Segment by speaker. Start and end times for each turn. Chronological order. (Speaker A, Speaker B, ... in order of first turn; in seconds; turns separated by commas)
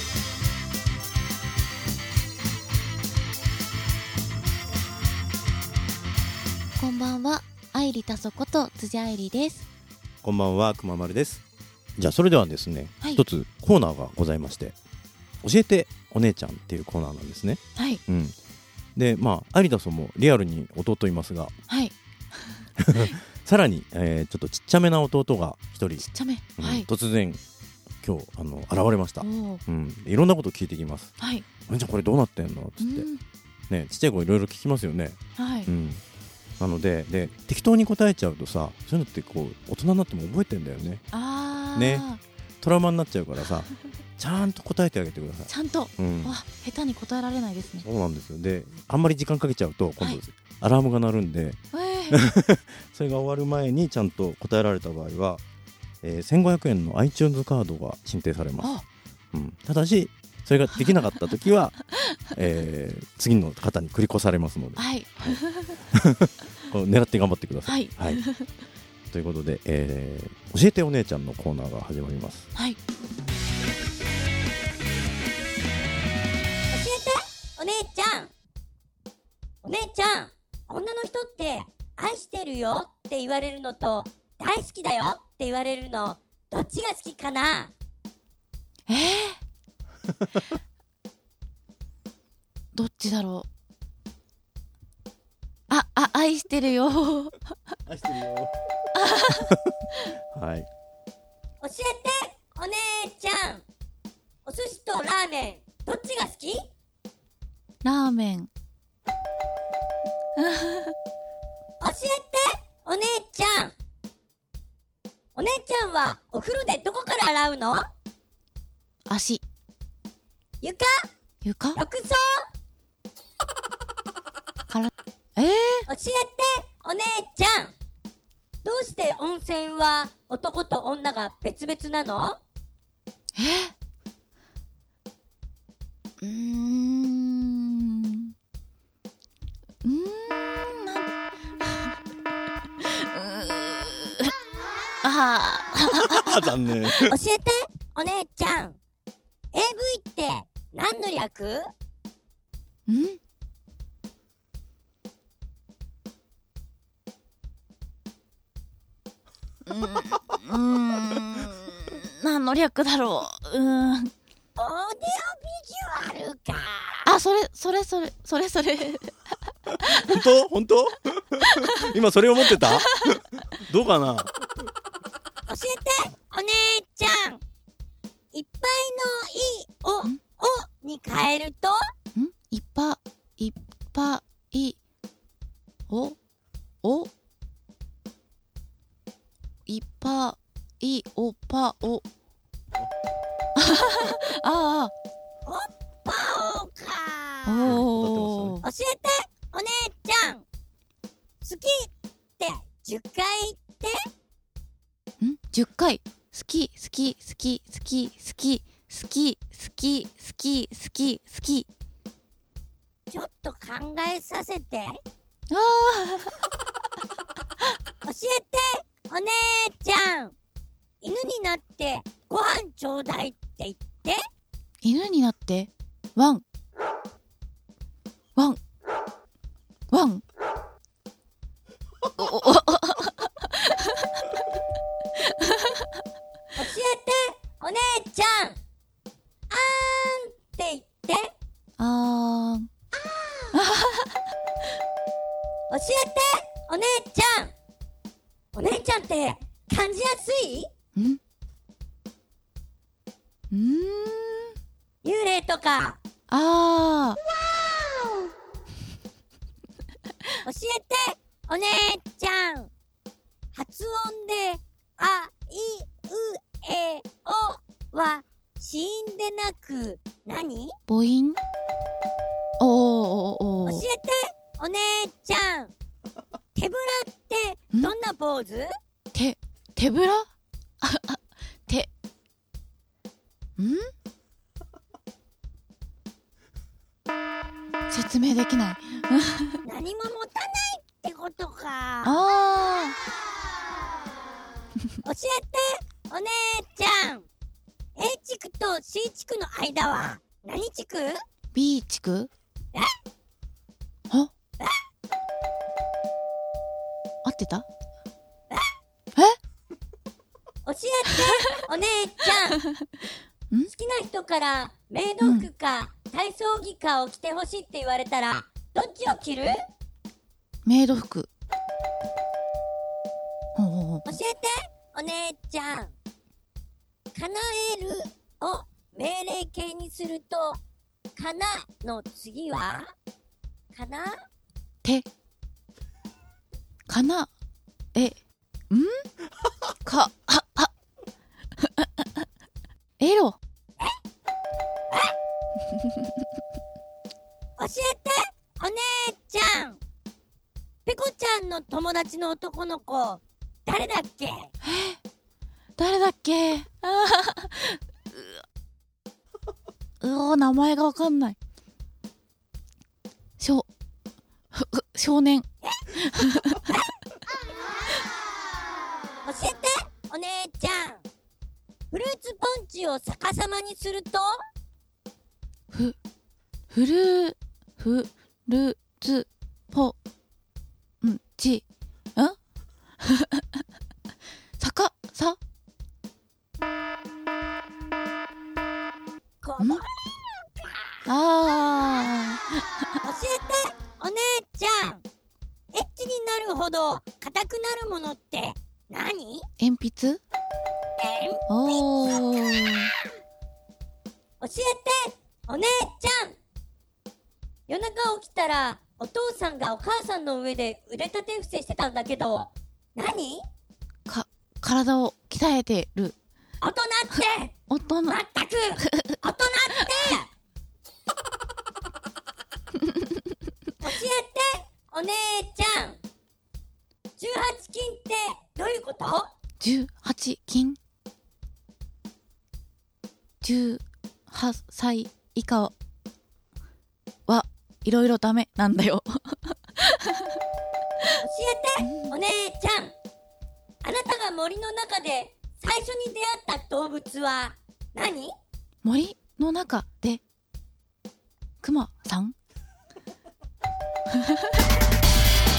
Speaker A: 6.8-9.7, Speaker B: 10.2-11.4, Speaker B: 12.0-14.8, Speaker B: 15.4-18.4, Speaker A: 17.8-18.0, Speaker B: 18.9-21.5, Speaker A: 21.7-23.1, Speaker B: 22.8-27.4, Speaker A: 26.0-26.9, Speaker B: 28.0-31.1, Speaker A: 29.2-29.6, Speaker A: 31.2-31.4, Speaker B: 31.7-33.1, Speaker A: 32.8-33.2, Speaker B: 33.7-36.0, Speaker A: 35.4-35.7, Speaker B: 36.6-41.0, Speaker A: 41.1-42.2, Speaker B: 41.7-42.1, Speaker B: 42.6-46.4, Speaker A: 45.5-47.8, Speaker B: 47.8-51.6, Speaker A: 51.7-52.2, Speaker B: 52.1-55.4, Speaker B: 56.0-58.7, Speaker B: 59.3-61.8, Speaker B: 62.3-68.2, Speaker A: 64.8-65.8, Speaker A: 67.7-68.5, Speaker B: 69.1-72.5, Speaker C: 76.7-78.3, Speaker C: 79.6-87.7, Speaker A: 88.9-89.4, Speaker A: 92.7-93.5, Speaker A: 95.7-97.4, Speaker B: 97.9-98.5, Speaker A: 98.9-99.5, Speaker B: 100.3-100.7, Speaker C: 101.6-103.6, Speaker C: 104.5-106.6, Speaker A: 107.8-108.5, Speaker A: 110.4-110.9, Speaker C: 111.8-113.7, Speaker C: 115.3-117.9, Speaker A: 119.1-119.4, Speaker C: 120.6-120.9, Speaker A: 121.4-121.8, Speaker C: 121.7-122.5, Speaker A: 124.7-125.9, Speaker C: 125.9-127.7, Speaker C: 128.6-132.4, Speaker A: 133.3-133.7, Speaker A: 136.2-138.3, Speaker A: 139.8-141.1, Speaker A: 141.6-141.9, Speaker A: 142.8-144.3, Speaker A: 145.0-146.9, Speaker B: 146.0-147.1, Speaker C: 147.1-148.8, Speaker C: 149.5-151.7, Speaker A: 152.9-153.2, Speaker A: 159.7-164.1, Speaker C: 164.6-167.1, Speaker A: 167.0-169.1, Speaker B: 169.8-174.3, Speaker A: 169.9-170.1, Speaker C: 175.5-177.4, Speaker C: 178.3-181.8, Speaker A: 182.1-184.8, Speaker A: 185.9-186.2, Speaker A: 186.8-187.1, Speaker A: 189.7-192.0, Speaker A: 193.6-194.9, Speaker C: 195.4-197.8, Speaker A: 197.4-198.6, Speaker B: 197.6-198.6, Speaker C: 198.6-200.4, Speaker C: 201.4-203.9, Speaker A: 205.2-211.7, Speaker C: 213.1-214.9, Speaker A: 215.5-216.3, Speaker C: 218.0-220.3, Speaker C: 221.0-224.2, Speaker A: 224.8-226.4, Speaker A: 229.9-230.2, Speaker A: 232.1-234.2, Speaker A: 235.2-235.9, Speaker C: 236.5-238.6, Speaker C: 239.5-241.3, Speaker A: 241.8-242.7, Speaker A: 243.5-244.2, Speaker C: 245.7-247.5, Speaker C: 248.5-250.7, Speaker A: 253.5-254.5, Speaker C: 255.0-256.0, Speaker A: 256.3-257.2, Speaker C: 257.5-258.3, Speaker C: 260.4-262.7, Speaker C: 263.5-270.7, Speaker A: 270.9-271.4, Speaker A: 272.6-273.8, Speaker C: 273.6-275.7, Speaker C: 276.6-278.7, Speaker A: 279.1-280.3, Speaker A: 280.8-281.9, Speaker A: 283.6-283.9, Speaker A: 287.9-289.6, Speaker C: 289.6-292.2, Speaker A: 292.0-292.9, Speaker C: 295.0-297.3, Speaker C: 298.0-301.2, Speaker A: 301.5-302.3, Speaker A: 307.2-307.6, Speaker C: 310.6-312.6, Speaker A: 311.2-311.6, Speaker C: 313.7-319.6, Speaker A: 315.2-315.5, Speaker A: 320.6-321.3, Speaker A: 323.6-324.0, Speaker C: 324.1-325.9, Speaker C: 327.1-330.6, Speaker C: 331.1-332.9, Speaker C: 333.7-334.2, Speaker A: 336.9-337.3, Speaker A: 338.7-339.1, Speaker A: 339.8-340.7, Speaker A: 341.6-342.1, Speaker A: 343.0-343.4, Speaker C: 347.6-349.8, Speaker C: 350.9-354.5, Speaker A: 354.6-355.0, Speaker A: 355.8-358.2, Speaker A: 360.0-361.4, Speaker A: 363.4-363.7, Speaker A: 364.5-366.7, Speaker C: 366.5-366.8, Speaker C: 369.2-371.0, Speaker C: 371.9-374.4, Speaker A: 376.7-379.9, Speaker A: 381.0-381.6, Speaker A: 383.0-383.6, Speaker A: 384.6-385.4, Speaker C: 389.4-390.1, Speaker A: 391.1-392.6, Speaker C: 393.0-395.0, Speaker C: 395.7-399.5, Speaker A: 399.6-400.2, Speaker C: 401.0-402.2, Speaker A: 401.5-402.9, Speaker C: 404.4-406.4, Speaker C: 407.7-413.4, Speaker A: 414.1-416.1, Speaker C: 416.6-417.5, Speaker A: 417.7-418.2, Speaker C: 418.1-420.3, Speaker C: 423.8-426.0, Speaker C: 427.2-429.3, Speaker A: 429.6-430.8, Speaker A: 433.4-435.7, Speaker A: 437.3-440.4, Speaker C: 441.2-442.9, Speaker A: 441.8-442.1, Speaker C: 443.8-448.3, Speaker A: 448.8-450.2, Speaker A: 451.6-452.3